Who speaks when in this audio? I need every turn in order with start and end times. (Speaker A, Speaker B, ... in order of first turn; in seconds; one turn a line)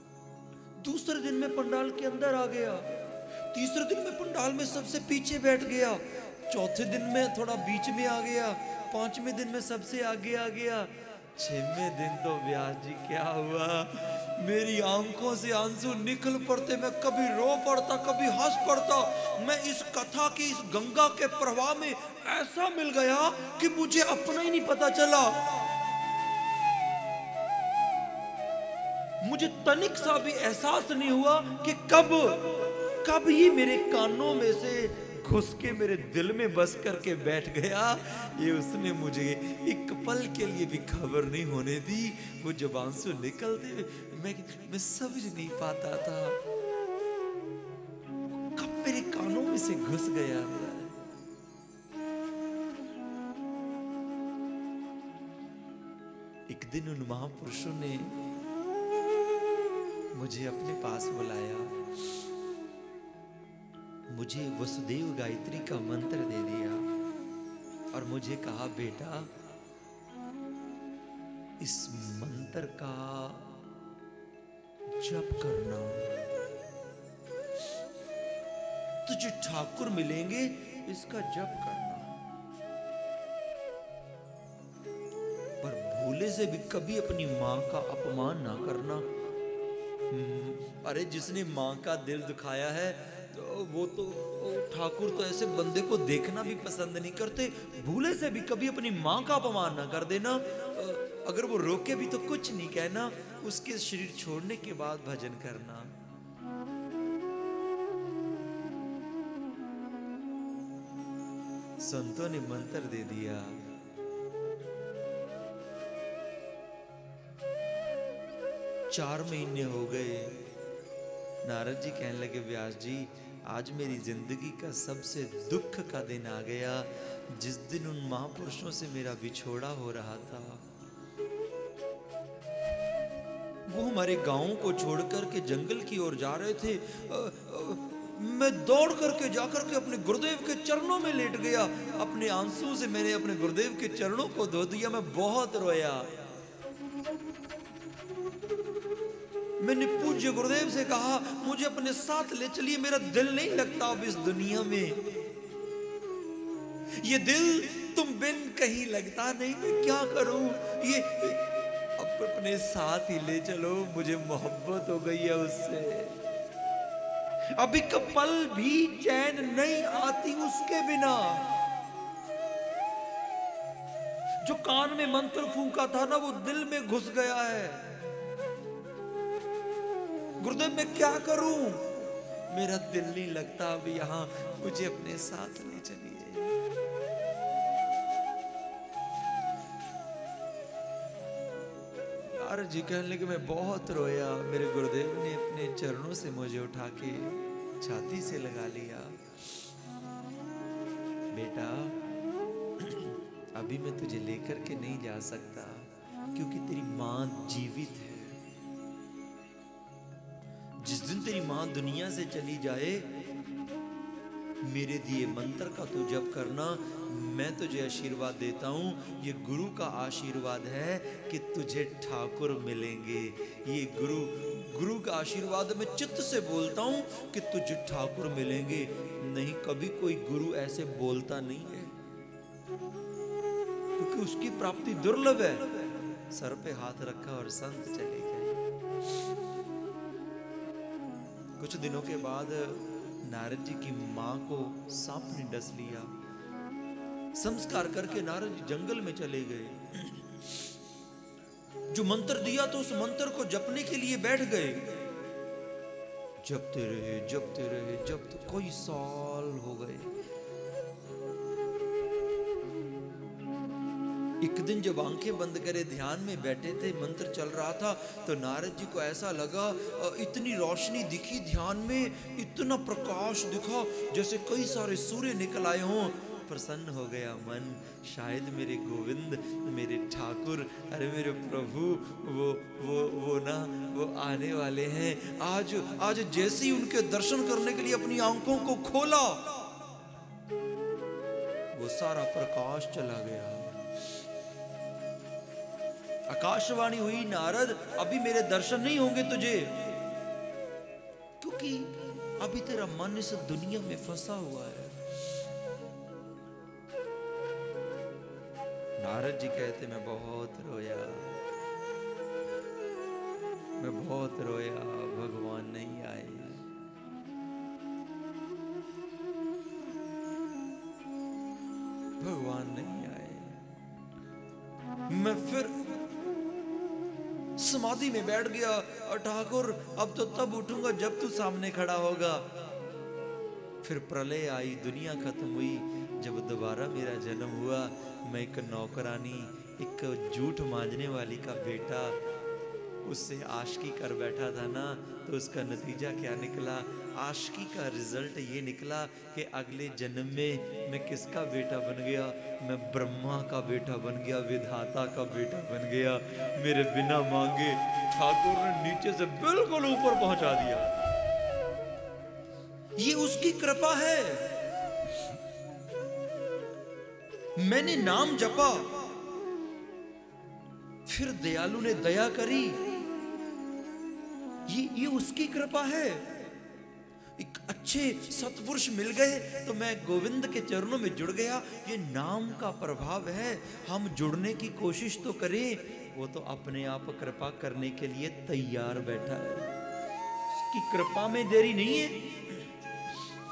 Speaker A: 0.8-25.6
Speaker A: 29.2-46.4
Speaker A: 48.5-51.0
Speaker A: 56.5-58.2
Speaker A: 60.1-61.9
Speaker A: 64.1-66.9
Speaker A: 67.9-69.3
Speaker A: 71.6-73.5
Speaker A: 74.9-76.1
Speaker A: 79.0-82.2
Speaker A: 85.6-89.1
Speaker A: 90.1-106.0
Speaker A: 111.8-113.7
Speaker A: 118.9-120.4
Speaker A: 121.4-130.6
Speaker A: 133.7-146.2
Speaker A: 149.6-155.1
Speaker A: 156.9-166.2
Speaker A: 167.6-171.6
Speaker A: 174.4-177.9
Speaker A: 180.4-186.6
Speaker A: 192.2-199.2
Speaker A: 201.3-202.0
Speaker A: 202.8-208.4
Speaker A: 210.8-213.1
Speaker A: 214.6-232.0
Speaker A: 234.0-238.6
Speaker A: 241.6-246.1
Speaker A: 247.3-250.7
Speaker A: 251.9-255.0
Speaker A: 256.4-260.1
Speaker A: 264.4-289.6
Speaker A: 291.7-293.9
Speaker A: 296.3-300.0
Speaker A: 301.4-305.0
Speaker A: 309.0-311.4
Speaker A: 313.8-316.6
Speaker A: 322.2-323.6
Speaker A: 325.1-325.9
Speaker A: 327.6-332.5
Speaker A: 333.8-342.2
Speaker A: 343.0-360.9
Speaker A: 363.0-364.6
Speaker A: 367.6-369.0
Speaker A: 371.1-372.8
Speaker A: 374.7-376.3
Speaker A: 377.4-389.7
Speaker A: 390.5-392.7